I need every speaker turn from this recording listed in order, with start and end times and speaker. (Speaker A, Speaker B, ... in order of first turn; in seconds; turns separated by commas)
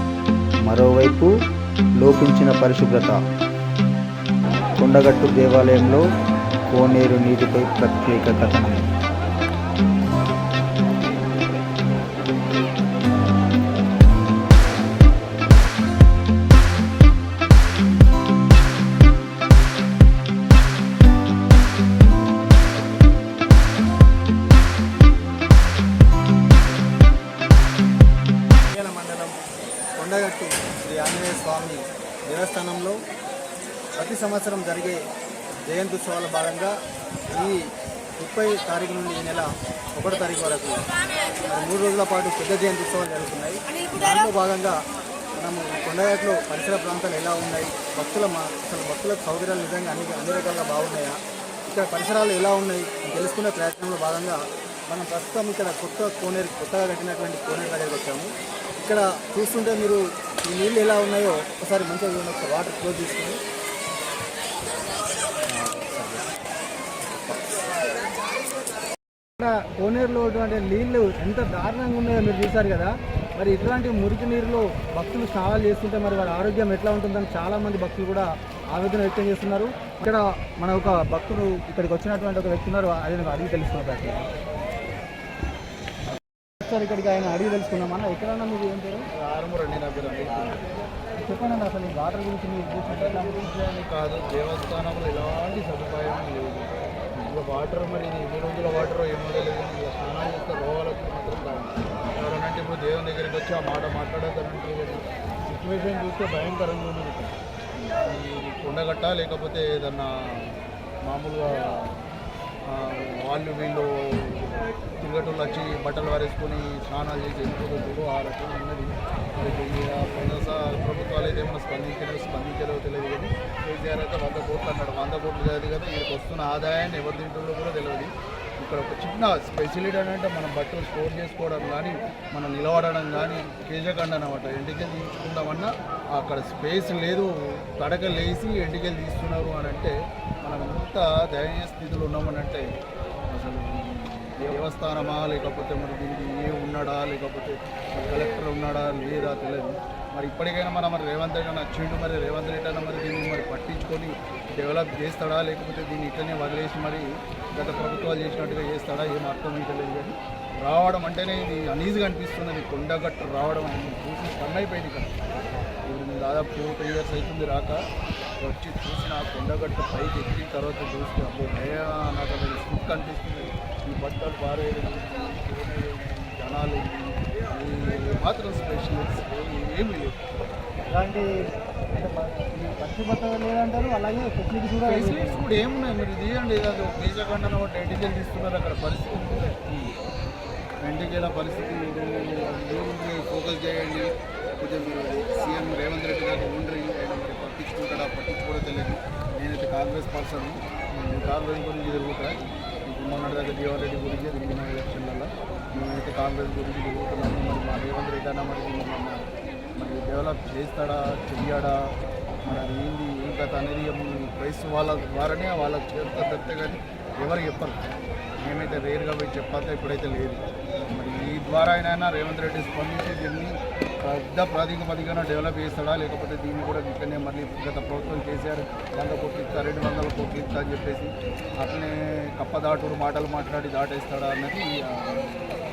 Speaker A: 0.7-1.3, Speaker A: 2.0-3.2, Speaker A: 4.8-6.0, Speaker B: 5.5-6.0, Speaker A: 6.7-8.8, Speaker B: 28.7-29.3, Speaker B: 30.0-33.0, Speaker B: 34.0-35.0, Speaker B: 35.7-36.7, Speaker B: 37.3-37.6, Speaker B: 38.2-40.8, Speaker B: 41.5-44.8, Speaker B: 45.4-63.4, Speaker C: 65.5-66.2, Speaker B: 69.4-84.3, Speaker B: 86.6-89.0, Speaker C: 89.1-90.6, Speaker B: 91.2-93.4, Speaker C: 93.2-112.0, Speaker C: 112.7-142.7, Speaker C: 143.3-165.2, Speaker C: 165.8-167.8, Speaker C: 168.4-180.2, Speaker B: 180.9-181.3, Speaker B: 181.9-185.4, Speaker C: 184.8-189.9, Speaker C: 190.8-211.9, Speaker C: 212.4-217.8, Speaker C: 218.4-235.5